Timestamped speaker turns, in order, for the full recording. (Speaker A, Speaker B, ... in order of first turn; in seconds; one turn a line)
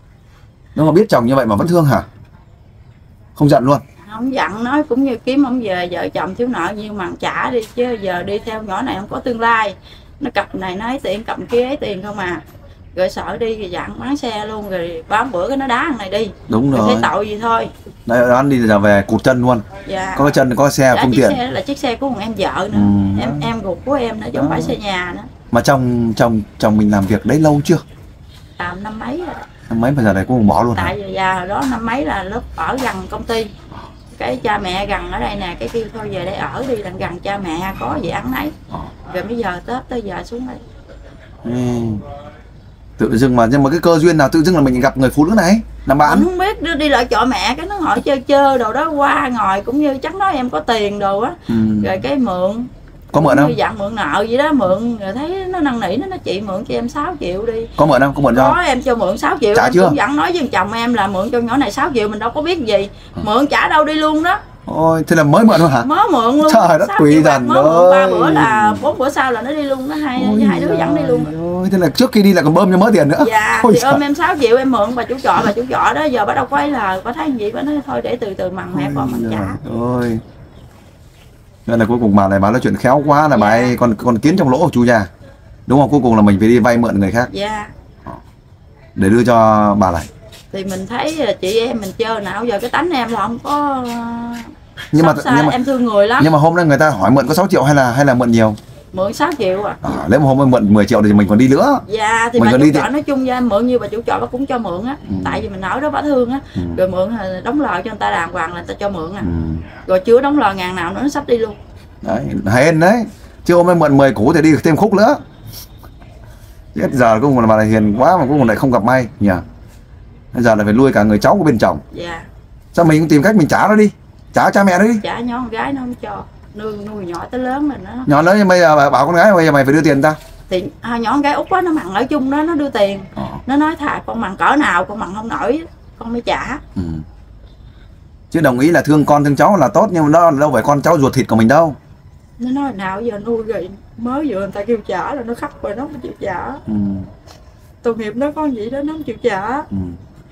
Speaker A: 0.8-2.1
Speaker A: 3.4-3.8
Speaker B: 4.0-12.4
Speaker B: 12.9-17.7
Speaker A: 16.5-17.1
Speaker A: 18.1-21.4
Speaker B: 19.9-20.4
Speaker B: 20.9-25.3
Speaker A: 22.7-23.5
Speaker A: 24.4-24.8
Speaker A: 25.5-27.8
Speaker B: 28.6-29.4
Speaker A: 29.7-30.9
Speaker B: 30.7-33.5
Speaker B: 34.1-38.5
Speaker B: 39.1-40.6
Speaker A: 41.4-42.0
Speaker A: 43.0-46.3
Speaker B: 46.0-57.7
Speaker A: 51.5-52.0
Speaker A: 53.1-53.5
Speaker A: 57.8-58.6
Speaker B: 58.3-64.4
Speaker A: 59.5-60.0
Speaker A: 64.7-65.9
Speaker B: 65.8-71.3
Speaker A: 66.4-68.9
Speaker A: 70.2-74.0
Speaker B: 73.2-79.6
Speaker A: 78.7-80.2
Speaker A: 81.7-85.1
Speaker B: 83.3-83.8
Speaker A: 85.7-87.3
Speaker B: 87.3-87.7
Speaker A: 89.0-90.1
Speaker B: 90.5-96.3
Speaker A: 94.9-95.6
Speaker A: 96.2-98.6
Speaker B: 98.9-99.8
Speaker A: 99.8-101.8
Speaker B: 101.9-109.3
Speaker A: 102.3-102.9
Speaker A: 105.0-105.5
Speaker A: 109.2-109.7
Speaker B: 109.8-111.6
Speaker A: 112.0-115.2
Speaker A: 116.7-119.4
Speaker A: 120.3-121.8
Speaker B: 121.9-122.3
Speaker A: 122.7-125.0
Speaker B: 125.0-128.1
Speaker A: 128.1-130.2
Speaker B: 130.5-136.6
Speaker A: 133.2-133.4
Speaker A: 136.8-137.0
Speaker A: 138.3-141.8
Speaker B: 142.4-146.6
Speaker A: 146.7-147.1
Speaker B: 147.8-149.7
Speaker A: 149.7-150.0